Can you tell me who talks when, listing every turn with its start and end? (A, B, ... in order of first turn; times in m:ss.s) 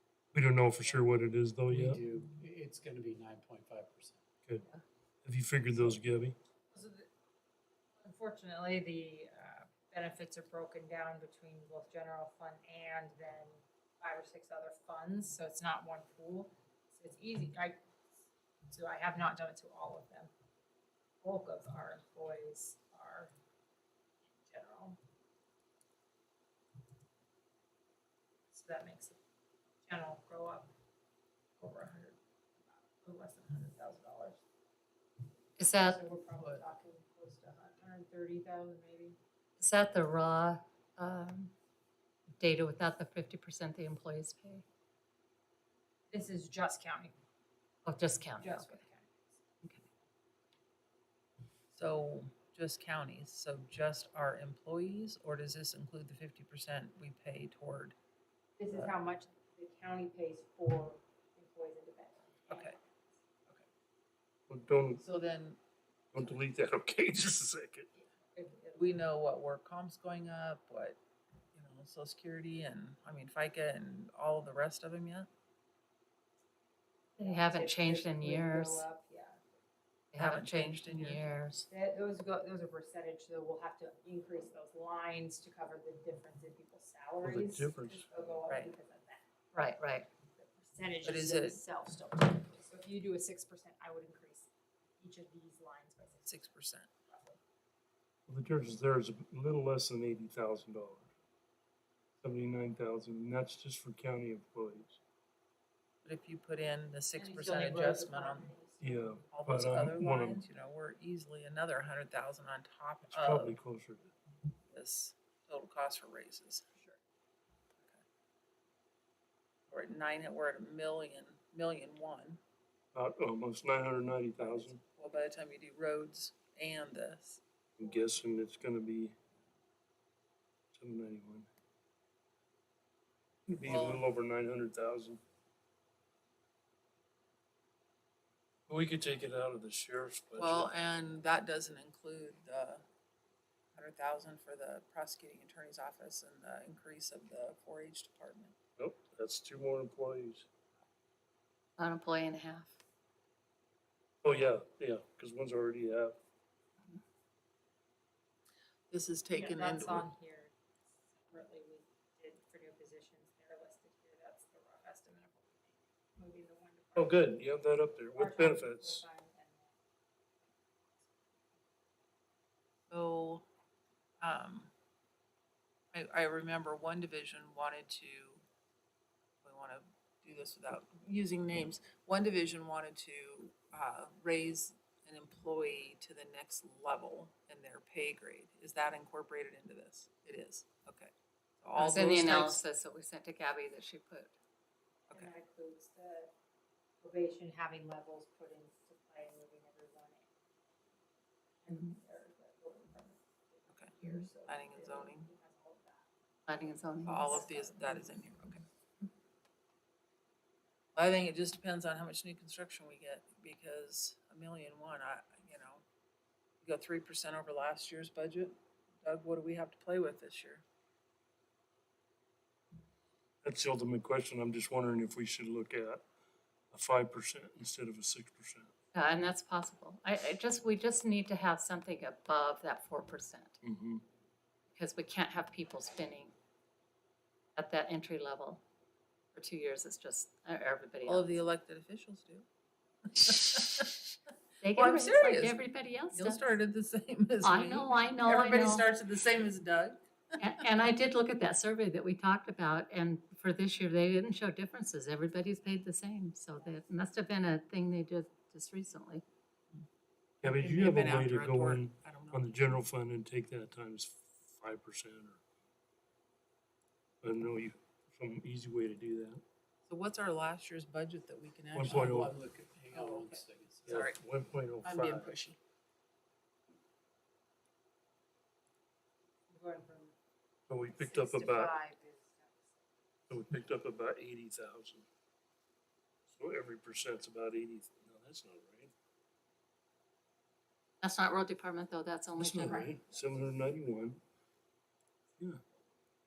0:00.3-0:02.0 A
0:01.7-0:04.2 B
0:05.2-0:06.4 A
0:06.7-0:07.1 C
0:08.0-0:17.8 C
0:18.7-0:20.3 C
0:21.2-0:23.3 C
0:24.4-0:25.0 C
0:28.5-0:29.2 C
0:29.9-0:30.7 C
0:31.6-0:34.4 C
0:35.6-0:36.0 D
0:35.8-0:39.2 C
0:36.4-0:36.6 E
0:39.6-0:41.5 D
0:42.4-0:44.6 D
0:46.1-0:47.1 C
0:47.8-0:48.8 D
0:48.4-0:49.3 C
0:51.7-0:58.0 E
0:58.6-1:02.7 C
1:02.5-1:02.8 E
1:04.5-1:05.0 A
1:05.0-1:05.6 E
1:06.1-1:07.9 A
1:08.0-1:09.0 C
1:08.8-1:11.0 E
1:11.6-1:15.3 E
1:17.2-1:19.6 C
1:17.2-1:18.9 D
1:20.1-1:21.7 D
1:20.2-1:21.2 E
1:21.7-1:36.4 C
1:27.2-1:28.1 A
1:28.5-1:28.7 E
1:29.5-1:30.1 D
1:31.0-1:31.6 E
1:36.2-1:36.9 E
1:37.1-1:37.4 C
1:38.3-1:41.1 A
1:42.2-1:45.0 A
1:46.0-1:48.5 E
1:47.2-1:49.3 C
1:48.8-1:50.4 A
1:49.3-1:53.6 E
1:53.1-1:54.1 A
1:54.7-1:56.6 E
1:59.7-2:02.4 E
2:02.9-2:04.8 A
2:05.0-2:07.4 E
2:07.8-2:09.2 A
2:10.7-2:11.5 A
2:13.5-2:15.2 A
2:13.6-2:14.0 E
2:18.7-2:20.7 A
2:20.4-2:22.8 E
2:23.8-2:28.6 E
2:28.8-2:30.5 A
2:31.8-2:32.8 D
2:34.2-2:36.2 A
2:38.9-2:40.1 E
2:39.3-2:40.6 C
2:41.1-2:47.4 C
2:47.0-2:49.0 A
2:48.2-2:49.7 C
2:51.0-2:51.4 C
2:52.9-2:53.5 E
2:54.2-2:54.7 E
2:55.9-2:58.4 E
2:59.4-3:12.6 E
3:11.8-3:14.4 D
3:15.1-3:16.3 C
3:17.0-3:20.3 C
3:21.6-3:26.1 C
3:23.7-3:25.3 E
3:26.5-3:27.5 D
3:27.0-3:28.6 E
3:27.3-3:28.2 C
3:31.0-3:35.8 E
3:36.6-3:40.6 E
3:43.4-3:46.0 A
3:46.7-3:48.7 A
3:48.9-3:53.6 D
3:53.6-3:54.0 A
3:54.7-3:56.3 D
3:57.6-3:58.6 D
3:59.3-4:01.3 D
4:01.1-4:02.5 E
4:03.1-4:04.1 E
4:04.6-4:06.5 D
4:04.7-4:10.4 E
4:07.4-4:08.9 D
4:10.4-4:19.2 D
4:20.4-4:25.4 A
4:20.4-4:22.8 E
4:27.2-4:29.4 A
4:29.9-4:34.2 E
4:31.7-4:32.3 A
4:31.8-4:34.1 B
4:33.9-4:35.3 A
4:34.8-4:35.6 E
4:39.5-4:40.2 C
4:40.7-4:41.8 A
4:40.9-4:42.8 C
4:43.3-4:45.1 A
4:46.4-4:48.9 A
4:51.0-4:52.9 D
4:52.4-4:54.2 A